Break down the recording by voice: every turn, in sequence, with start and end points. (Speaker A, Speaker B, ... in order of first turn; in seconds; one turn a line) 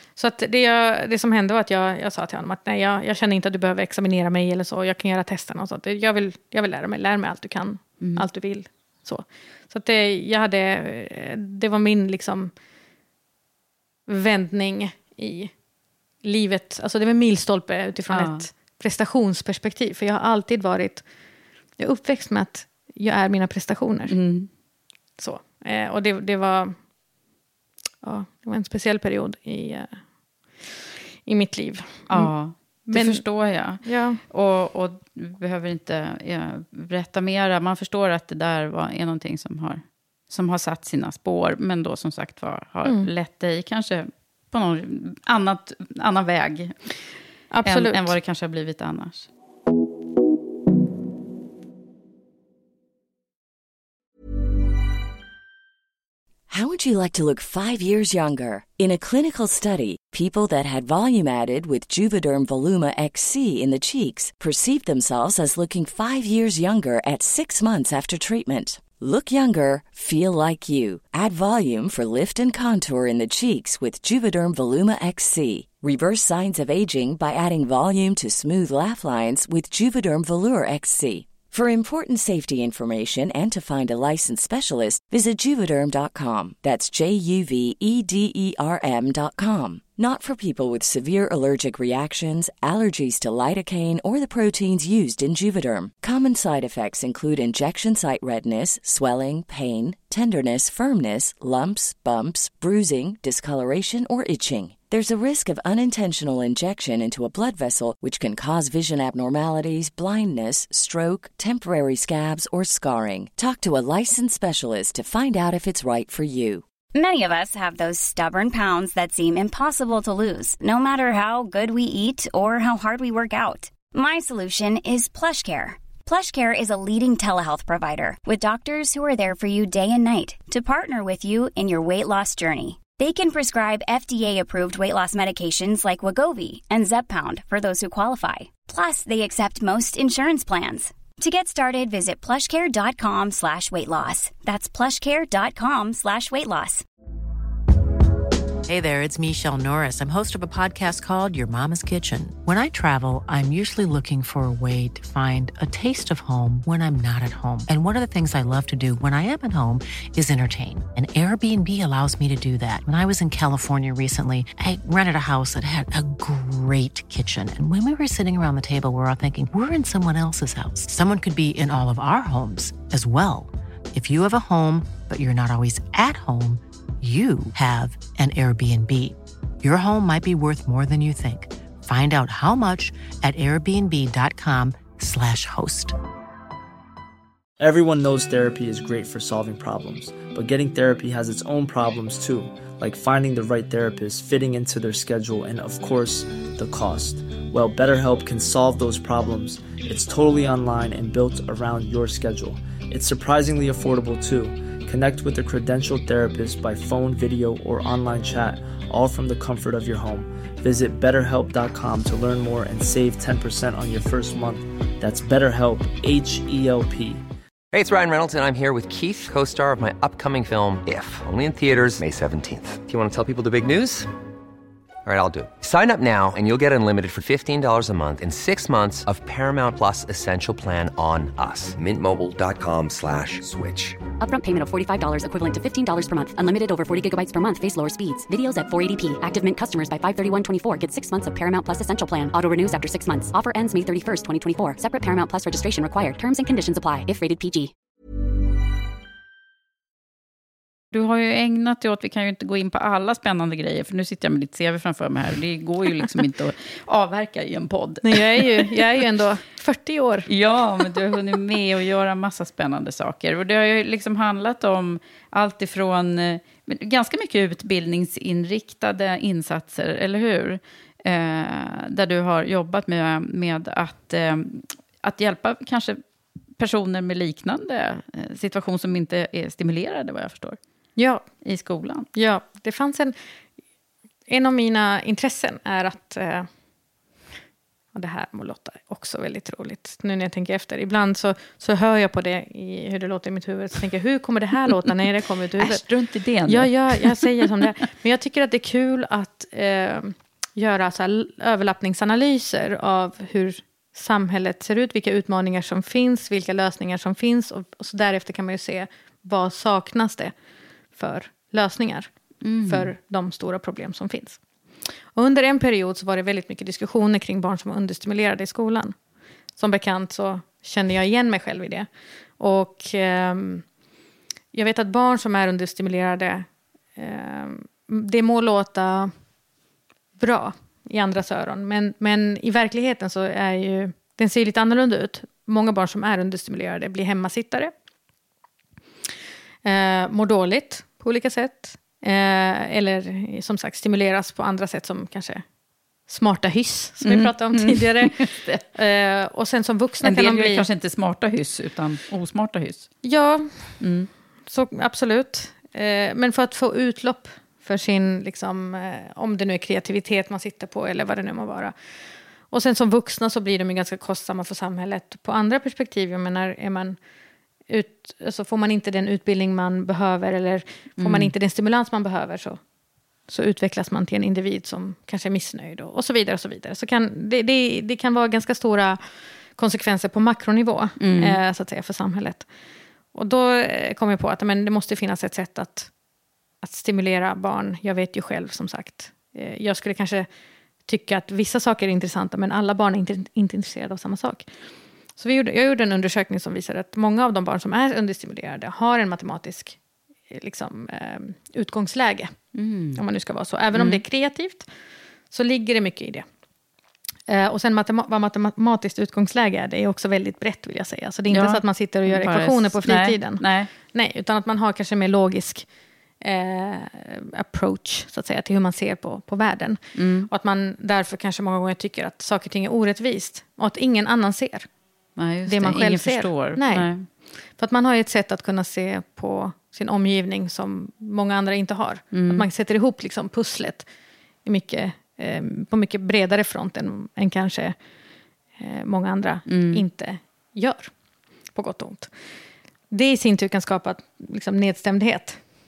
Speaker A: 0.2-12.5
Speaker A: 14.1-15.5
Speaker A: 16.2-21.0
Speaker B: 18.1-18.5
Speaker A: 21.8-24.2
Speaker B: 24.1-24.5
Speaker A: 25.2-26.8
Speaker A: 28.0-30.0
Speaker A: 31.2-32.3
Speaker B: 32.1-46.8
Speaker A: 32.9-34.2
Speaker A: 42.8-43.1
Speaker A: 47.5-48.1
Speaker B: 47.6-49.3
Speaker C: 56.5-116.6
Speaker D: 116.9-146.8
Speaker E: 148.7-185.9
Speaker F: 187.6-217.2
Speaker G: 217.7-224.1
Speaker G: 225.0-234.0
Speaker H: 234.2-247.7
Speaker B: 250.9-258.9
Speaker A: 258.0-260.3
Speaker B: 260.3-276.0
Speaker B: 276.6-280.6
Speaker A: 280.9-281.2
Speaker B: 281.4-282.1
Speaker A: 282.1-283.1
Speaker A: 284.3-286.5
Speaker A: 287.9-295.8
Speaker B: 295.6-297.6
Speaker A: 296.4-310.3
Speaker A: 310.9-312.1
Speaker B: 312.4-312.9
Speaker A: 312.6-314.4
Speaker A: 315.1-318.9
Speaker A: 319.6-321.9
Speaker A: 322.4-323.6
Speaker A: 324.5-329.1
Speaker A: 330.2-337.7
Speaker A: 339.6-345.4
Speaker A: 346.1-350.7
Speaker B: 347.0-348.6
Speaker B: 350.0-352.9
Speaker A: 353.0-353.8
Speaker B: 353.8-354.1
Speaker A: 354.5-361.7
Speaker A: 362.5-367.0
Speaker A: 367.7-372.6
Speaker B: 371.0-371.3
Speaker A: 373.3-382.5
Speaker B: 381.0-381.4
Speaker A: 383.1-385.9
Speaker A: 386.6-390.3
Speaker A: 390.9-394.5
Speaker A: 395.2-399.8
Speaker A: 400.3-402.3
Speaker B: 402.5-403.0
Speaker A: 402.9-404.7
Speaker B: 403.7-404.0
Speaker A: 405.3-406.2
Speaker A: 407.3-415.7
Speaker B: 411.3-413.7
Speaker A: 416.2-424.7
Speaker B: 419.9-420.3
Speaker B: 425.2-427.1
Speaker A: 425.4-426.9
Speaker A: 427.5-433.9
Speaker B: 432.1-432.4
Speaker A: 434.4-437.8
Speaker A: 438.6-440.9
Speaker B: 439.5-439.8
Speaker A: 441.5-442.1
Speaker A: 442.9-445.4